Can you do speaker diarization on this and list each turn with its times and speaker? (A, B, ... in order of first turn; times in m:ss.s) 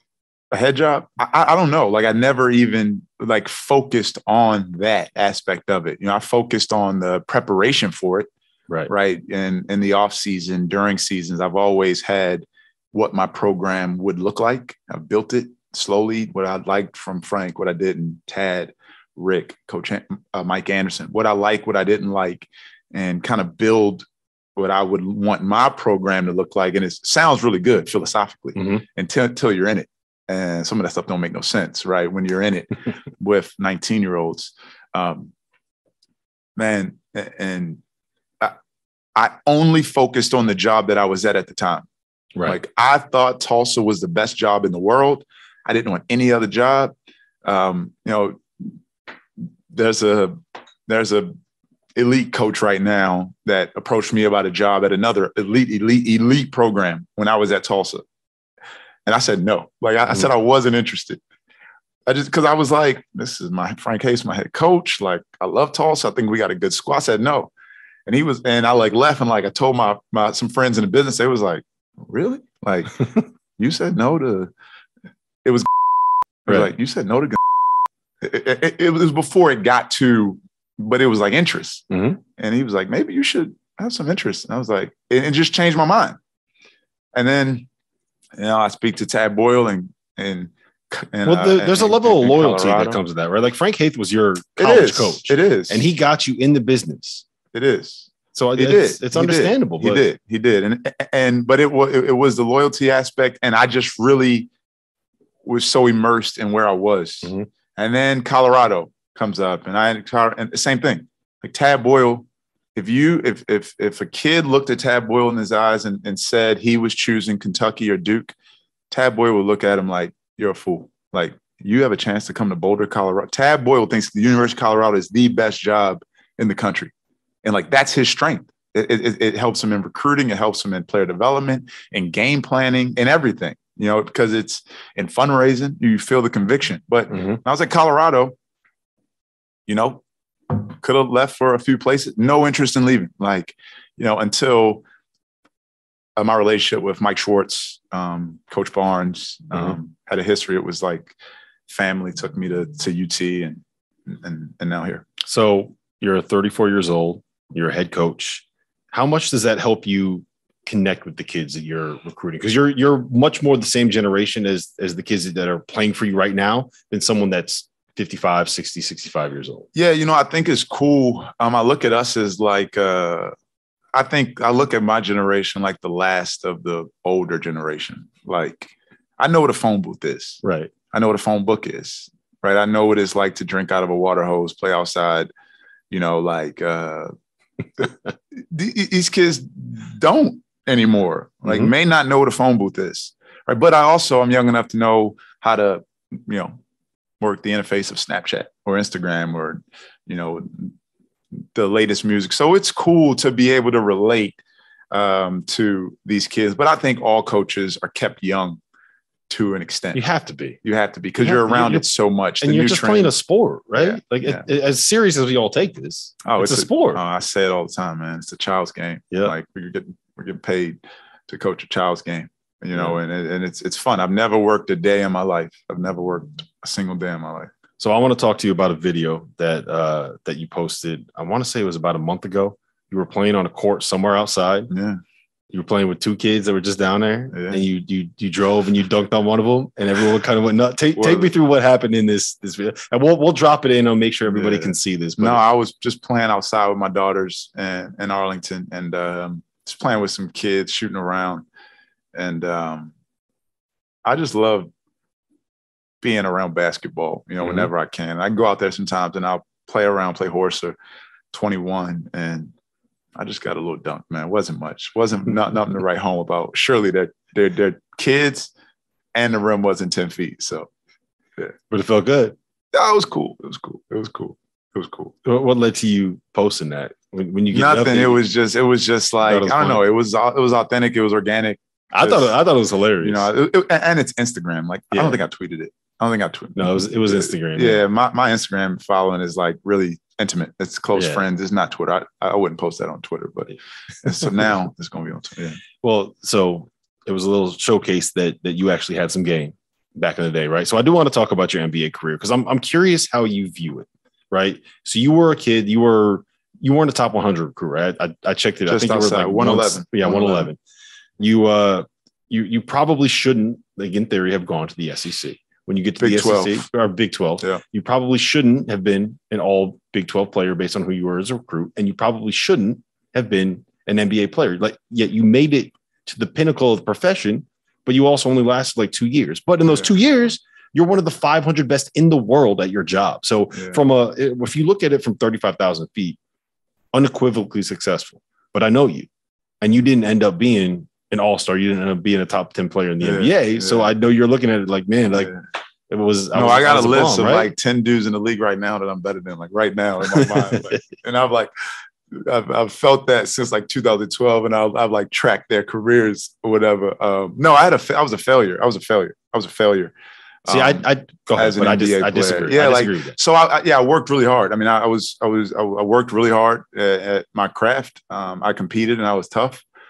0:00.5-0:08.3 A
0:08.9-0:35.3 A
0:28.6-0:28.8 B
0:36.6-0:37.8 A
0:39.1-0:41.9 A
0:42.4-0:48.4 A
0:49.7-0:51.3 A
0:51.9-0:58.0 A
0:59.0-1:01.2 A
1:02.0-1:07.5 A
1:08.0-1:13.0 A
1:13.6-1:14.5 A
1:15.4-1:15.7 A
1:16.4-1:17.4 A
1:18.2-1:26.2 A
1:21.9-1:22.2 B
1:27.1-1:27.7 A
1:28.4-1:33.0 A
1:31.2-1:37.2 B
1:34.6-1:35.9 A
1:37.5-1:44.5 A
1:38.3-1:40.0 B
1:45.4-1:58.3 A
1:47.2-1:47.5 B
1:58.9-2:06.9 A
2:07.4-2:18.3 A
2:17.1-2:17.4 B
2:19.7-2:24.8 A
2:26.2-2:31.2 A
2:31.7-2:35.1 A
2:35.2-2:49.7 B
2:49.7-2:53.3 A
2:53.9-3:05.3 A
3:00.4-3:00.7 B
3:05.9-3:07.1 A
3:07.8-3:16.6 A
3:11.4-3:11.7 B
3:17.2-3:20.7 A
3:21.5-3:24.4 A
3:24.9-3:28.6 A
3:29.3-3:30.0 A
3:29.9-3:30.6 B
3:30.6-3:33.1 A
3:31.2-3:31.8 B
3:32.4-3:37.0 B
3:33.8-3:34.4 A
3:36.2-3:47.5 A
3:47.8-3:54.7 B
3:54.7-3:55.0 A
3:55.5-4:05.4 B
3:57.3-3:57.6 A
4:01.0-4:01.3 A
4:04.3-4:11.4 A
4:12.1-4:12.9 A
4:14.0-4:14.7 A
4:16.0-4:20.8 A
4:17.4-4:17.7 B
4:21.3-4:22.5 A
4:23.2-4:28.5 A
4:29.1-4:30.7 A
4:31.7-4:32.4 B
4:32.7-4:35.1 A
4:35.2-4:38.2 B
4:37.5-4:42.3 A
4:39.2-4:39.8 B
4:41.9-4:43.3 B
4:43.0-4:55.6 A
4:44.9-4:45.2 B
4:46.6-4:47.8 B
4:50.9-4:51.2 B
4:55.8-5:10.6 B
5:08.7-5:10.5 A
5:11.2-5:36.2 B
5:16.0-5:16.7 A
5:29.7-5:29.9 A
5:33.5-5:33.8 A
5:36.9-5:39.1 B
5:39.6-5:45.4 B
5:43.0-5:43.9 A
5:45.9-5:47.5 B
5:46.3-5:51.5 A
5:50.1-5:50.8 B
5:52.1-5:59.9 A
6:00.4-6:09.6 A
6:00.5-6:03.2 B